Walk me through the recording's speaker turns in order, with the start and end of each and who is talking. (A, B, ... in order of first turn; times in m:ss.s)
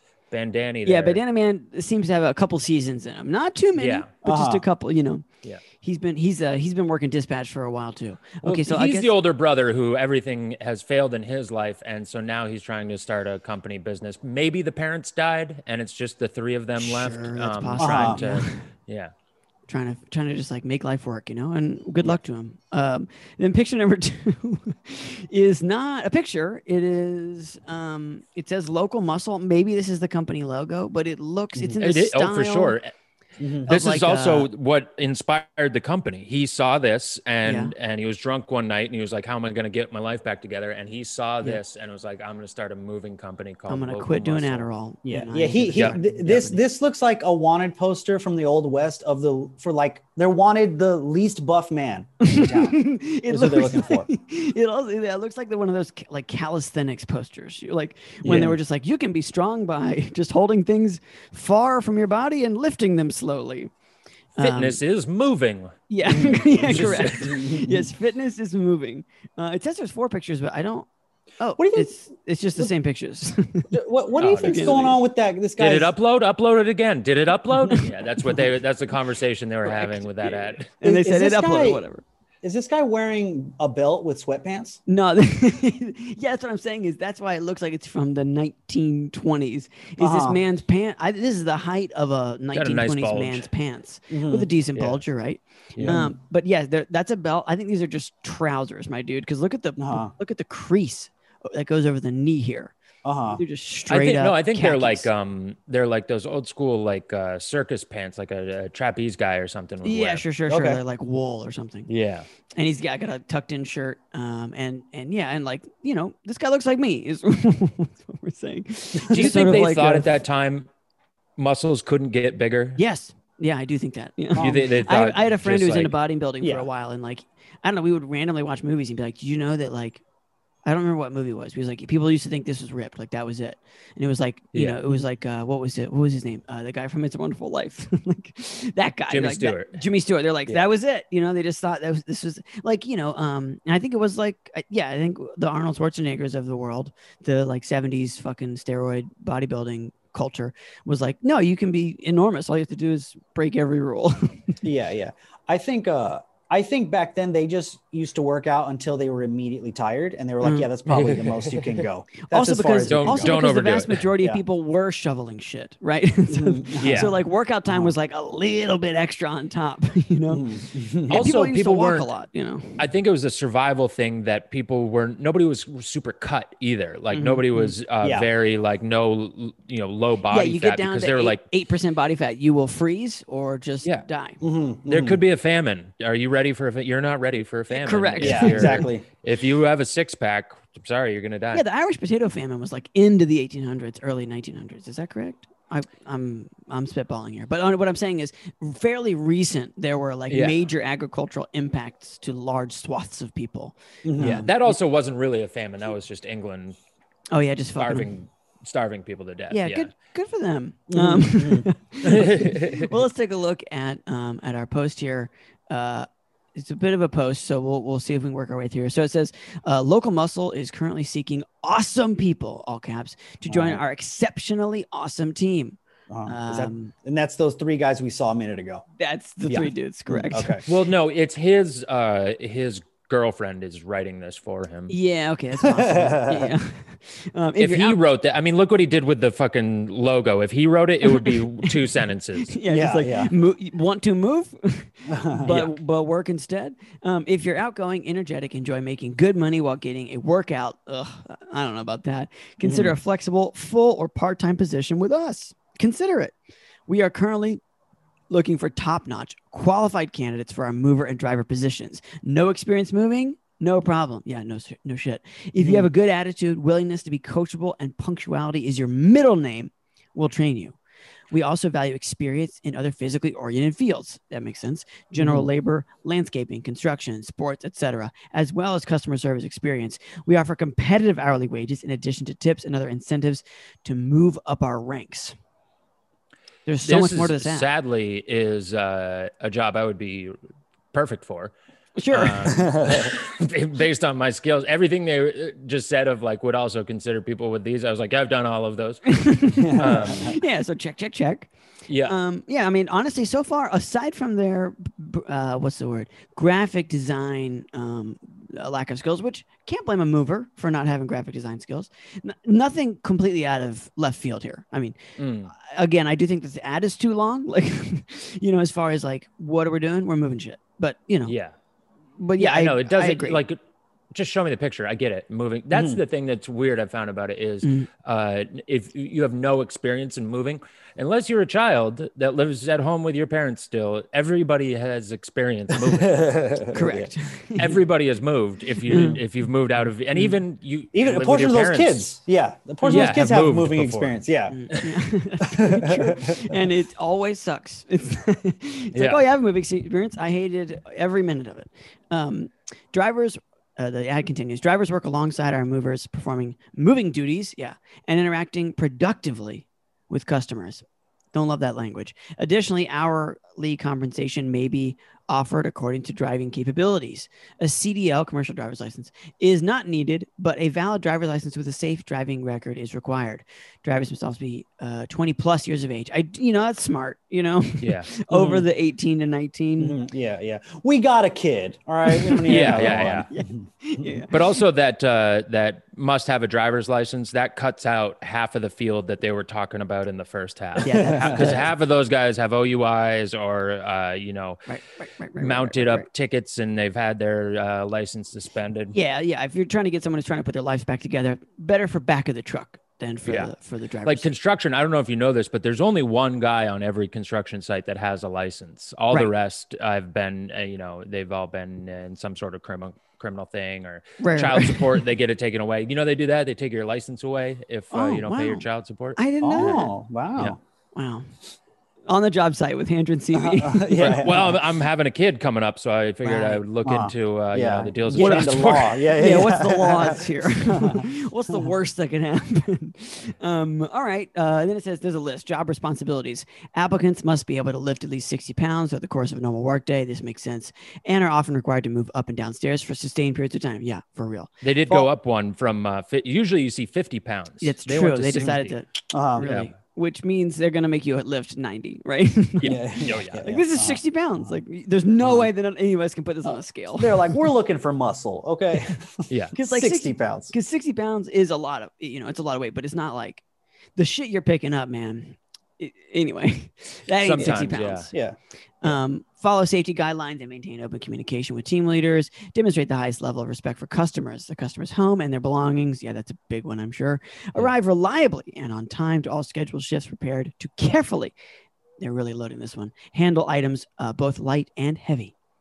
0:00.3-0:01.2 A
0:00.8-0:05.3 B
0:03.8-0:04.1 A
0:04.2-0:04.6 C
0:05.8-0:09.1 B
0:08.4-0:19.1 A
0:16.8-0:18.6 B
0:17.8-0:18.2 C
0:19.7-0:32.8 B
0:31.8-0:32.9 A
0:33.4-0:33.7 C
0:33.7-0:34.5 B
0:33.7-0:44.7 A
0:37.4-0:37.7 B
0:43.7-0:46.6 B
0:45.1-0:54.1 C
0:52.2-1:03.7 B
0:58.2-0:58.6 C
1:04.4-1:04.8 B
1:04.4-1:07.4 A
1:05.9-1:10.9 B
1:06.1-1:07.9 C
1:11.4-1:13.8 B
1:11.6-1:11.9 C
1:13.7-1:15.9 C
1:14.2-1:14.7 A
1:14.4-1:15.0 B
1:15.6-1:20.7 A
1:19.7-1:20.0 B
1:20.8-1:22.0 B
1:20.8-1:21.8 C
1:22.4-1:24.8 C
1:24.9-1:42.7 B
1:30.0-1:30.4 C
1:32.5-1:33.5 A
1:34.1-1:34.5 C
1:35.8-1:36.2 C
1:39.8-1:40.1 C
1:43.0-1:43.4 C
1:43.3-1:45.1 B
1:43.9-1:50.2 A
1:49.8-1:51.9 B
1:50.5-1:50.8 C
1:51.9-1:52.3 A
1:52.6-2:00.1 B
1:59.0-1:59.6 C
1:59.1-2:00.7 A
2:01.4-2:02.8 A
2:02.8-2:10.0 B
2:04.4-2:04.7 C
2:04.4-2:05.9 A
2:06.4-2:06.7 C
2:10.7-2:34.6 B
2:14.5-2:14.8 A
2:19.1-2:19.8 A
2:34.6-2:43.4 C
2:40.4-2:40.7 B
2:40.9-2:41.8 A
2:42.3-2:50.5 B
2:42.8-2:44.1 A
2:46.3-2:47.1 C
2:46.8-2:47.1 A
2:47.7-2:47.9 C
2:50.3-2:51.3 C
2:51.1-2:52.8 B
2:51.1-2:52.1 A
2:52.8-3:01.4 A
2:57.1-2:57.7 B
2:58.0-2:58.3 C
3:00.3-3:04.4 B
3:04.4-3:05.2 C
3:04.9-3:11.6 A
3:07.7-3:08.9 B
3:08.2-3:09.0 C
3:11.5-3:24.8 B
3:20.3-3:20.6 A
3:24.0-3:24.4 C
3:24.2-3:26.8 A
3:27.3-3:28.1 B
3:27.8-3:29.9 A
3:29.5-3:46.9 B
3:30.9-3:31.7 C
3:32.0-3:32.9 A
3:43.5-3:43.8 C
3:46.1-3:48.8 C
3:49.0-3:50.6 B
3:50.1-3:50.6 C
3:50.6-3:54.9 A
3:54.9-3:58.0 B
3:55.6-3:56.5 C
3:57.6-4:02.5 A
4:01.0-4:01.8 B
4:02.4-4:16.3 B
4:02.7-4:03.3 C
4:05.1-4:05.7 C
4:12.6-4:13.0 C
4:16.9-4:17.6 B
4:18.3-4:30.8 B
4:25.6-4:25.9 C
4:31.3-4:45.4 B
4:35.2-4:35.5 C
4:46.7-4:47.7 B
4:46.8-4:50.4 A
4:50.9-4:51.5 A
4:52.0-4:52.6 B
4:52.1-5:00.4 A
4:52.5-4:53.1 C
4:59.1-5:01.5 B
4:59.6-5:00.4 C
5:01.9-5:02.2 A
5:02.0-5:15.0 B
5:15.2-5:15.5 A
5:15.6-5:21.4 B
5:21.3-5:21.5 A
5:22.2-5:23.4 B
5:22.4-5:23.6 A
5:24.1-5:36.6 A
5:25.7-5:26.0 C
5:35.7-5:37.1 C
5:36.7-5:37.8 B
5:37.6-5:42.1 A
5:38.9-5:39.2 B
5:40.9-5:44.7 C
5:42.8-5:44.2 A
5:44.5-6:20.0 B
5:45.4-5:46.6 C
5:48.9-5:49.2 A
6:17.8-6:18.1 A
6:18.3-6:18.7 C
6:19.8-6:24.2 C
6:22.1-6:24.6 B
6:22.5-6:23.3 A
6:24.3-6:34.7 A
6:30.8-6:31.6 B
6:30.9-6:31.6 C
6:34.7-6:36.1 B
6:35.4-6:39.0 A
6:38.9-6:44.3 B
6:43.2-6:43.5 A
6:44.0-6:59.8 A
6:54.2-6:55.0 B
6:57.9-6:59.9 B
6:59.4-7:00.6 C
7:00.9-7:01.3 B
7:02.1-7:04.0 B
7:03.3-7:04.6 C
7:04.0-7:09.1 A
7:06.2-7:06.6 B
7:06.8-7:11.1 C
7:08.1-7:24.5 B
7:24.6-7:28.8 A
7:27.6-7:37.3 B
7:29.1-7:29.5 C
7:29.4-7:29.7 A
7:32.6-7:33.4 A
7:32.6-7:34.5 C
7:35.2-7:35.5 C
7:37.0-7:40.5 C
7:39.3-7:39.6 A
7:39.6-7:43.4 B
7:44.0-7:48.1 B
7:47.2-7:48.1 A
7:47.4-7:49.0 C
7:48.8-8:01.4 B
8:02.0-8:05.3 B